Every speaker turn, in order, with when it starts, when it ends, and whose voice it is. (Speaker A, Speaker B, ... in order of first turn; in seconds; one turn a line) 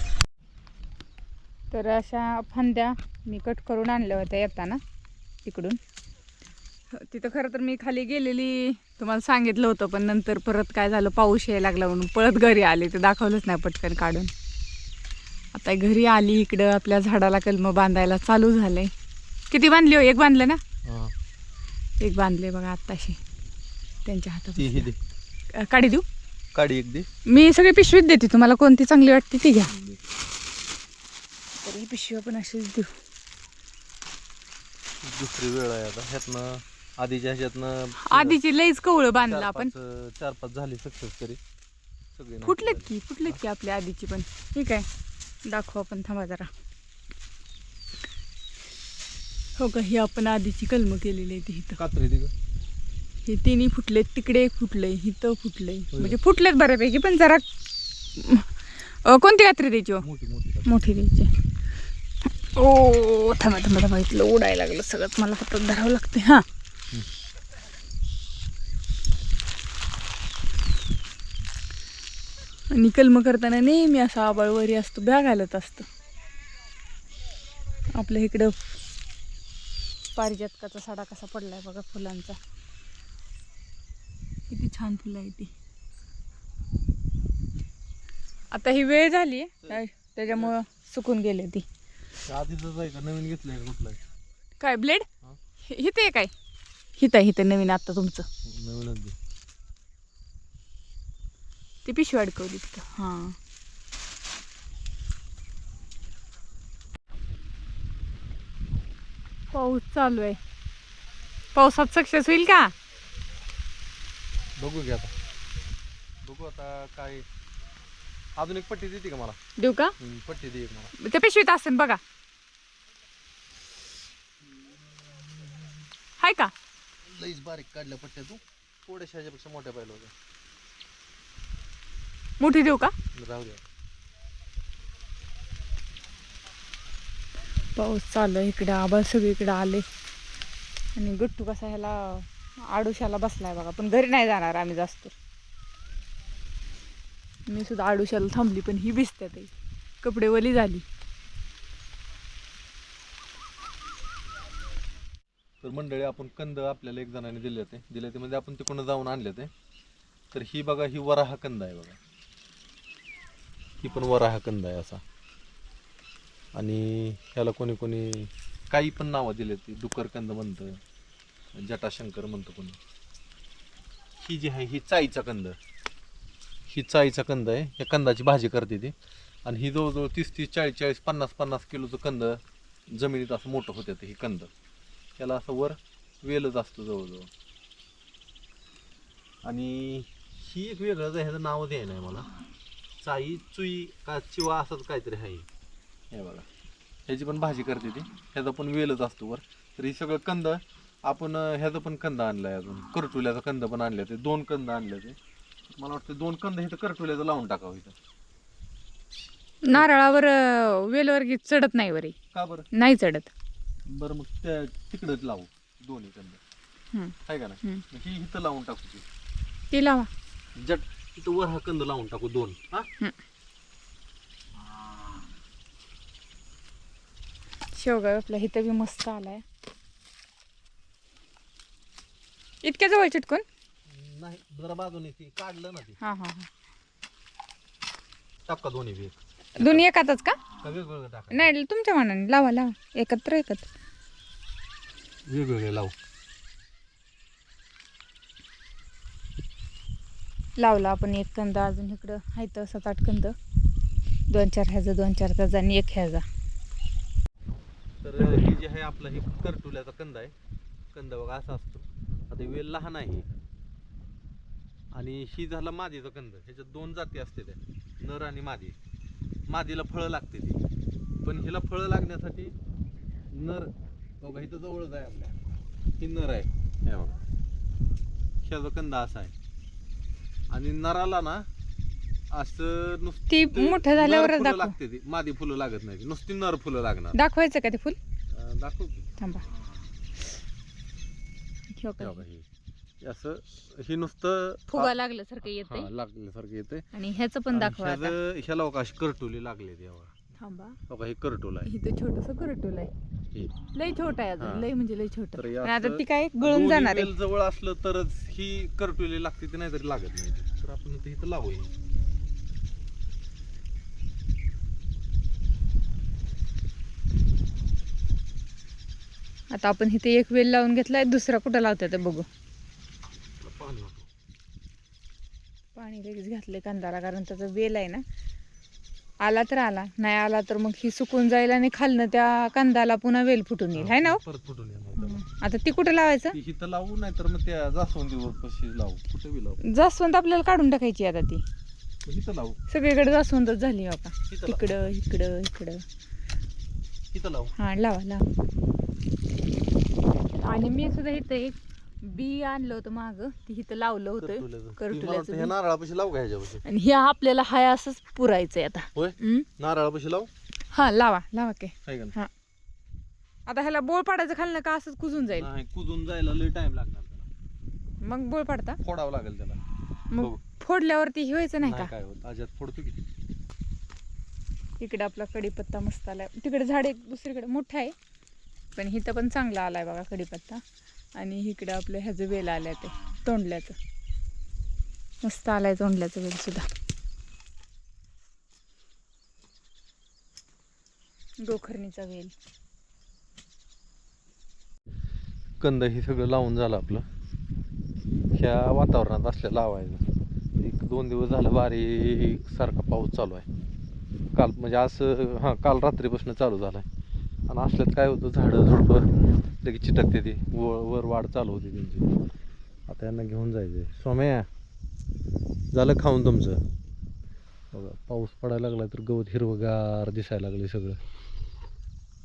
Speaker A: 1.7-4.8
Speaker A: 5.5-5.8
Speaker A: 6.9-14.3
Speaker A: 15.5-18.9
Speaker A: 19.5-20.6
Speaker B: 20.9-21.1
Speaker A: 22.0-23.2
Speaker A: 24.1-24.9
Speaker B: 24.6-25.0
Speaker A: 25.5-26.1
Speaker B: 26.5-27.1
Speaker A: 27.3-29.7
Speaker B: 29.7-30.0
Speaker A: 31.6-32.9
Speaker B: 35.0-38.4
Speaker A: 38.1-39.7
Speaker B: 39.3-41.4
Speaker B: 42.1-43.4
Speaker A: 42.4-44.9
Speaker A: 45.5-46.5
Speaker A: 49.6-51.8
Speaker B: 51.8-52.3
Speaker A: 53.2-57.5
Speaker A: 58.2-58.5
Speaker A: 59.0-60.0
Speaker B: 60.0-60.8
Speaker A: 60.7-61.3
Speaker A: 62.5-66.4
Speaker A: 72.7-75.9
Speaker A: 77.9-78.7
Speaker A: 80.1-82.4
Speaker A: 84.5-85.5
Speaker A: 88.5-91.7
Speaker B: 92.3-94.0
Speaker A: 94.6-95.1
Speaker A: 95.7-96.3
Speaker A: 97.0-98.2
Speaker B: 98.5-99.2
Speaker A: 101.8-103.4
Speaker A: 109.5-110.4
Speaker A: 111.5-112.7
Speaker B: 114.6-115.1
Speaker B: 116.2-117.2
Speaker B: 118.4-119.4
Speaker A: 119.6-120.0
Speaker B: 120.0-120.9
Speaker A: 121.0-122.0
Speaker A: 126.2-126.5
Speaker B: 127.0-130.1
Speaker A: 132.4-132.9
Speaker B: 133.2-133.6
Speaker A: 137.8-139.8
Speaker A: 140.9-145.1
Speaker A: 147.5-150.8
Speaker B: 155.6-159.5
Speaker B: 160.3-162.0
Speaker B: 163.8-165.0
Speaker B: 166.6-170.8
Speaker B: 171.6-172.8
Speaker B: 174.2-175.6
Speaker B: 176.7-178.9
Speaker B: 179.5-182.4
Speaker B: 182.9-184.5
Speaker B: 185.2-187.3
Speaker B: 189.4-192.3
Speaker B: 193.0-195.5
Speaker B: 196.1-196.5
Speaker B: 197.1-205.2
Speaker B: 205.8-207.9
Speaker A: 209.7-212.2
Speaker B: 212.3-212.7
Speaker A: 212.7-213.3
Speaker B: 213.9-216.4
Speaker A: 216.9-217.8
Speaker B: 217.2-219.1
Speaker A: 219.7-220.1
Speaker B: 220.6-222.9
Speaker A: 227.8-229.4
Speaker A: 232.6-233.4
Speaker B: 233.9-236.0
Speaker A: 236.0-236.5
Speaker B: 238.5-239.8
Speaker A: 239.6-240.4
Speaker B: 240.6-241.5
Speaker A: 241.3-243.7
Speaker B: 245.2-245.9
Speaker A: 250.6-253.4
Speaker A: 254.3-256.2
Speaker B: 258.0-260.3
Speaker B: 260.9-263.3
Speaker B: 264.9-268.8
Speaker B: 269.5-270.6
Speaker B: 271.2-272.6
Speaker B: 273.3-275.4
Speaker B: 276.0-277.2
Speaker B: 278.4-279.3
Speaker B: 280.5-281.5
Speaker B: 282.3-287.2
Speaker A: 283.3-284.7
Speaker A: 287.1-288.0
Speaker B: 288.3-289.1
Speaker A: 291.7-292.2
Speaker B: 292.0-292.5
Speaker B: 293.0-296.9
Speaker A: 294.7-295.9
Speaker A: 296.9-298.1
Speaker B: 297.5-300.1
Speaker A: 300.4-300.8
Speaker B: 300.9-301.7
Speaker A: 301.6-302.9
Speaker A: 303.7-307.1
Speaker B: 304.4-304.7
Speaker B: 305.4-311.7
Speaker A: 319.5-322.3
Speaker B: 323.4-324.1
Speaker A: 325.8-328.0
Speaker A: 329.2-334.2
Speaker B: 333.7-335.2
Speaker A: 335.0-336.4
Speaker B: 336.3-339.6
Speaker A: 339.7-341.4
Speaker B: 342.0-342.6
Speaker A: 342.7-345.8
Speaker B: 344.3-344.9
Speaker B: 347.1-347.5
Speaker A: 347.6-348.2
Speaker A: 350.4-355.5
Speaker B: 354.2-356.6
Speaker A: 356.7-359.5
Speaker B: 358.9-360.3
Speaker A: 360.7-362.3
Speaker B: 361.9-362.2
Speaker A: 363.5-365.5
Speaker B: 365.2-367.3
Speaker A: 368.0-368.8
Speaker B: 368.8-369.6
Speaker A: 370.1-371.9
Speaker B: 371.6-373.0
Speaker A: 374.8-377.9
Speaker A: 378.8-380.6
Speaker A: 381.2-383.8
Speaker A: 385.2-386.6
Speaker A: 391.4-392.3
Speaker B: 395.6-397.0
Speaker B: 398.3-400.0
Speaker B: 400.6-403.5
Speaker B: 404.4-406.9
Speaker B: 407.5-409.1
Speaker B: 409.6-412.1
Speaker B: 412.9-414.5
Speaker B: 415.7-416.6
Speaker B: 417.7-421.0